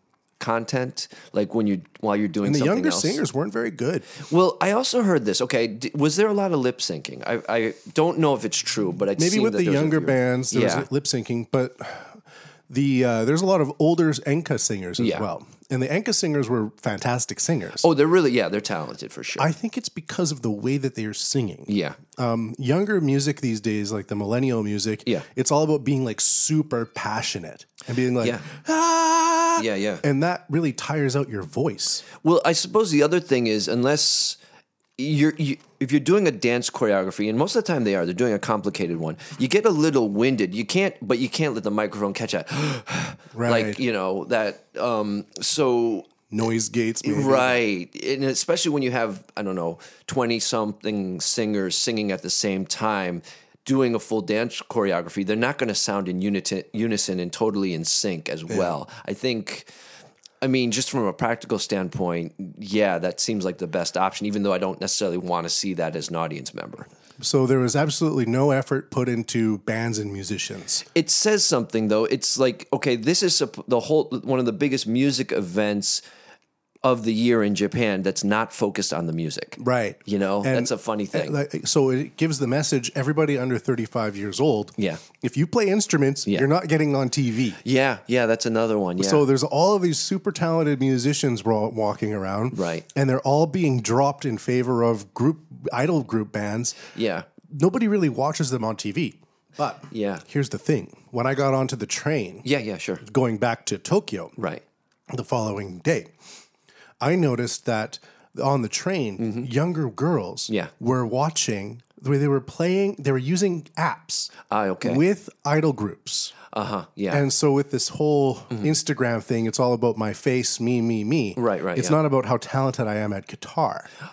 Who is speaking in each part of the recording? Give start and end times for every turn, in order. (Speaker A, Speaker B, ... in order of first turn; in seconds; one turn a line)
Speaker A: 0.4-3.2
Speaker B: 2.4-4.1
Speaker A: 4.2-10.9
Speaker B: 9.2-17.9
Speaker A: 15.0-15.3
Speaker A: 17.8-19.5
Speaker B: 19.4-32.0
Speaker A: 21.7-22.0
Speaker A: 28.2-28.4
Speaker A: 29.6-30.0
Speaker A: 32.2-34.4
Speaker A: 35.0-46.1
Speaker B: 43.3-43.8
Speaker B: 46.3-47.6
Speaker A: 47.0-59.7
Speaker B: 58.5-58.7
Speaker A: 60.4-66.9
Speaker B: 67.2-70.8
Speaker A: 70.9-76.0
Speaker A: 76.8-81.4
Speaker B: 79.6-87.6
Speaker A: 84.8-85.0
Speaker A: 87.6-89.2
Speaker B: 89.0-96.9
Speaker A: 92.5-92.8
Speaker A: 96.9-97.3
Speaker B: 97.5-102.5
Speaker A: 99.9-100.2
Speaker A: 102.4-103.0
Speaker B: 103.0-104.3
Speaker A: 104.4-104.6
Speaker B: 105.1-106.1
Speaker B: 107.0-116.3
Speaker A: 109.2-109.5
Speaker A: 114.5-115.0
Speaker A: 116.5-117.2
Speaker B: 117.1-123.9
Speaker A: 121.3-122.0